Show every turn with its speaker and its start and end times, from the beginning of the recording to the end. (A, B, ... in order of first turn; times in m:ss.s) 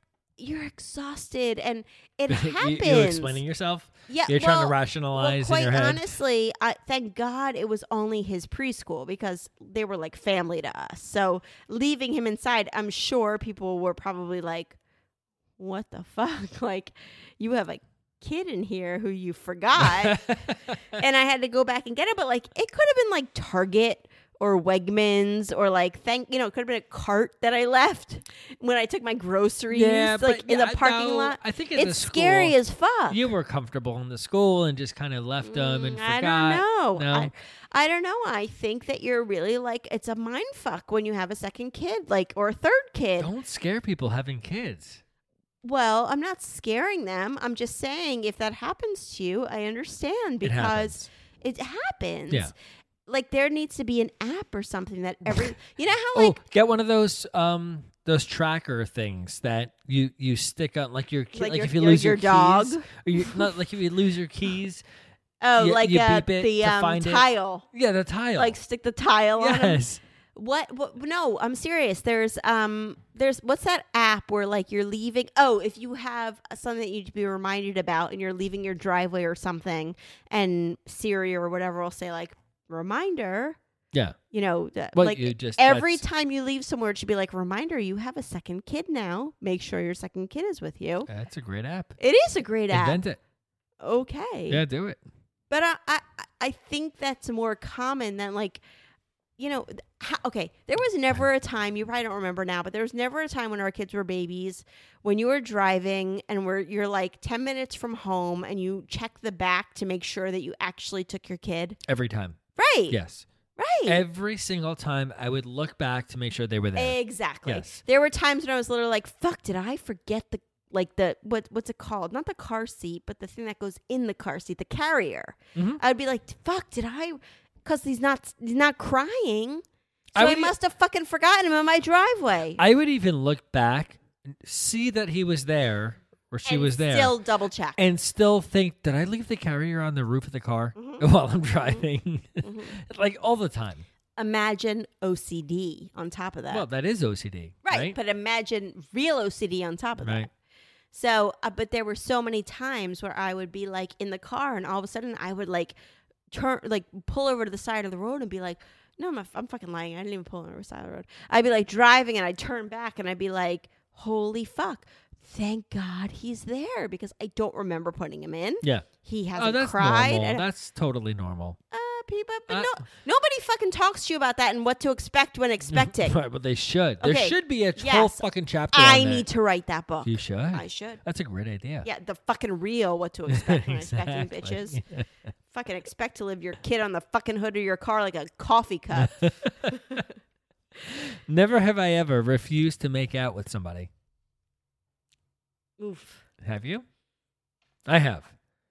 0:00.4-0:03.4 A
0:02.3-0:06.1 B
0:04.1-0:14.8 A
0:15.6-0:33.3 A
0:19.8-0:20.8 B
0:29.7-0:32.6 B
0:33.1-0:37.3 B
0:35.4-0:43.3 A
0:43.2-0:45.0 B
0:45.6-0:52.5 A
0:50.4-0:51.1 B
0:53.0-0:56.4 A
0:55.3-0:55.6 B
0:56.1-1:04.8 B
1:01.3-1:03.5 A
1:05.4-1:07.6 A
1:05.6-1:08.6 B
1:08.4-1:09.8 A
1:09.4-1:10.0 B
1:10.3-1:23.6 A
1:24.3-1:31.1 A
1:24.9-1:26.0 B
1:31.1-1:32.0 B
1:32.0-1:33.0 A
1:32.7-1:33.2 B
1:33.8-1:34.6 A
1:34.5-1:35.0 B
1:35.5-1:38.6 A
1:39.4-1:51.8 A
1:51.9-1:52.4 B
1:52.6-1:53.0 A
1:52.9-1:53.2 B
1:53.6-1:54.0 A
1:53.8-1:57.8 B
1:56.7-2:09.6 A
2:05.5-2:05.8 B
2:10.1-2:10.5 B
2:10.2-2:12.6 A
2:12.6-2:17.2 B
2:16.4-2:17.8 A
2:17.8-2:23.8 B
2:20.7-2:21.0 A
2:22.4-2:22.8 A
2:24.2-2:26.6 A
2:26.5-2:28.0 B
2:27.6-2:30.3 A
2:30.0-2:30.3 B
2:30.9-2:35.8 A
2:36.3-2:50.4 A
2:48.6-2:51.6 B
2:51.7-2:56.2 A
2:52.5-2:52.8 B
2:55.7-2:59.3 B
2:57.0-3:01.0 A
3:00.0-3:01.9 B
3:01.8-3:04.8 A
3:03.3-3:05.0 B
3:05.5-3:10.0 A
3:08.9-3:10.0 B
3:10.8-3:13.9 B
3:15.8-3:16.2 A
3:16.4-3:16.8 B
3:17.8-3:18.3 B